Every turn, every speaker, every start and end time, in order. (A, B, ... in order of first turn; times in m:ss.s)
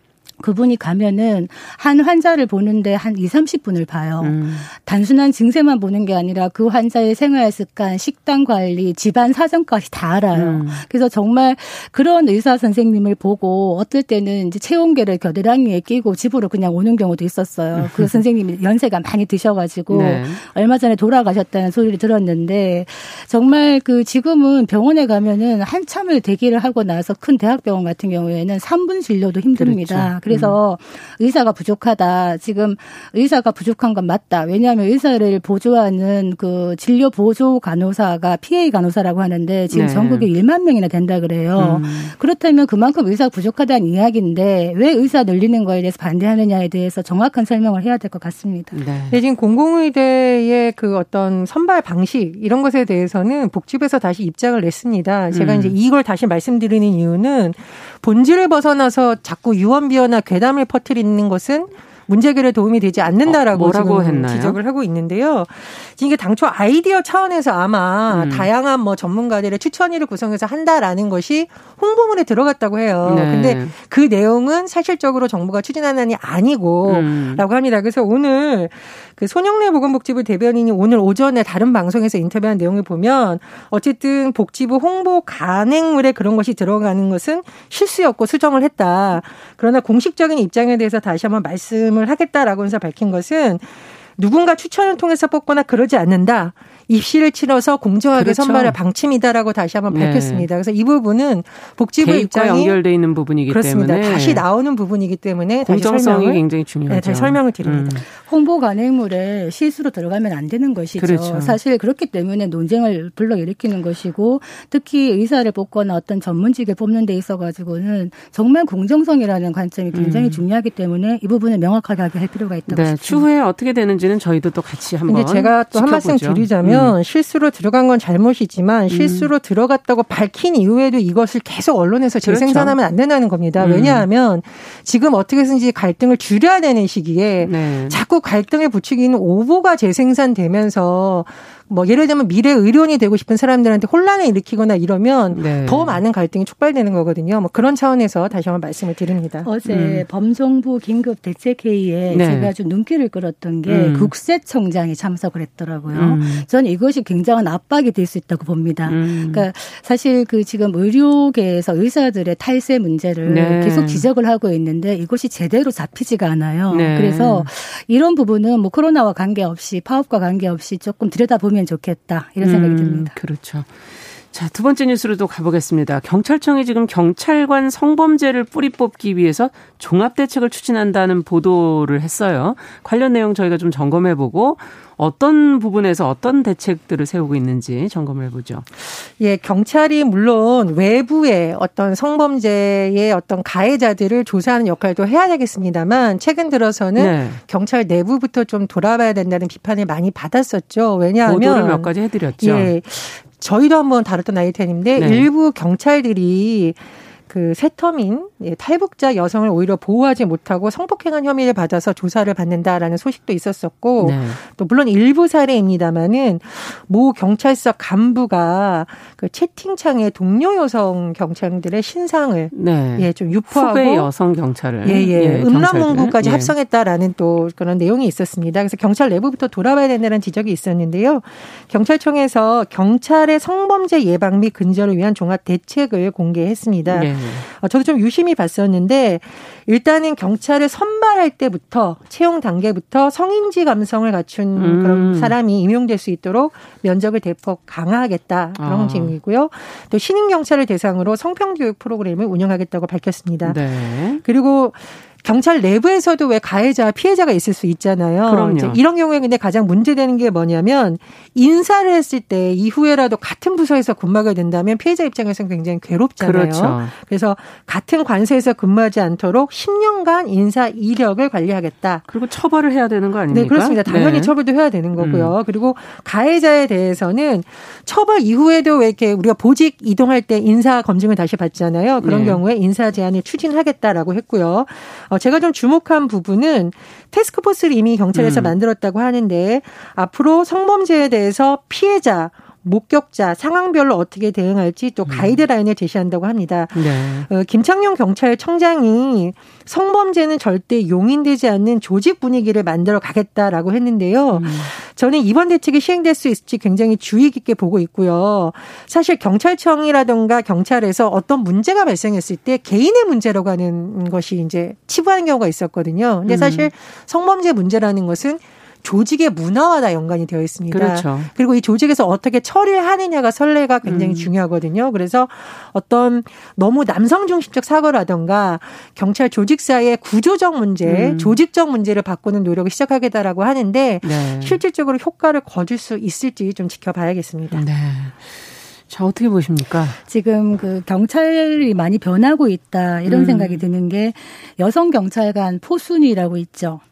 0:00.4-0:48.8 A
0:04.2-0:04.7 B
0:10.3-0:10.8 B
0:17.8-0:18.1 B
0:19.9-0:20.4 B
0:29.6-0:30.6 B
0:39.7-0:40.3 B
0:41.6-0:42.1 B
0:48.7-0:49.2 B
0:49.1-1:42.8 C
0:55.3-0:55.8 B
1:03.2-1:04.6 B
1:08.1-1:08.5 B
1:13.0-1:13.7 B
1:16.8-1:17.4 B
1:38.1-1:38.8 B
1:39.9-1:40.5 B
1:42.0-1:44.4 B
1:43.5-1:48.0 C
1:45.6-1:48.0 B
1:48.1-2:03.3 A
1:51.0-1:51.6 B
1:59.9-2:00.4 B
2:02.7-2:07.0 B
2:05.1-2:29.5 C
2:08.9-2:09.3 B
2:12.2-2:12.8 B
2:13.6-2:14.1 B
2:17.4-2:18.0 B
2:25.3-2:26.0 B
2:29.4-2:53.1 A
2:29.6-2:30.0 B
2:32.1-2:32.5 B
2:33.7-2:34.1 B
2:35.9-2:36.4 B
2:38.8-2:39.5 B
2:43.2-2:44.1 B
2:46.7-2:47.5 B
2:52.4-3:08.6 B
3:08.9-3:44.1 C
3:17.0-3:17.4 B
3:21.2-3:22.7 B
3:25.0-3:25.3 B
3:34.0-3:34.4 B
3:42.5-3:46.5 B
3:44.8-4:13.6 C
3:56.9-3:57.4 B
4:04.6-4:05.3 B
4:08.6-4:09.2 B
4:13.4-4:14.2 B
4:14.2-4:32.0 C
4:18.2-4:18.8 B
4:26.2-4:26.9 B
4:32.1-4:34.3 B
4:33.3-5:37.6 C
4:35.0-4:35.3 B
4:42.0-4:42.4 B
4:48.1-4:48.5 B
4:55.0-4:55.4 B
4:56.7-4:57.3 B
5:04.3-5:04.7 B
5:16.2-5:16.7 B
5:20.7-5:21.3 B
5:23.8-5:24.3 B
5:30.8-5:31.4 B
5:34.0-5:34.6 B
5:37.5-5:40.0 B
5:40.1-5:46.8 A
5:43.0-5:43.6 B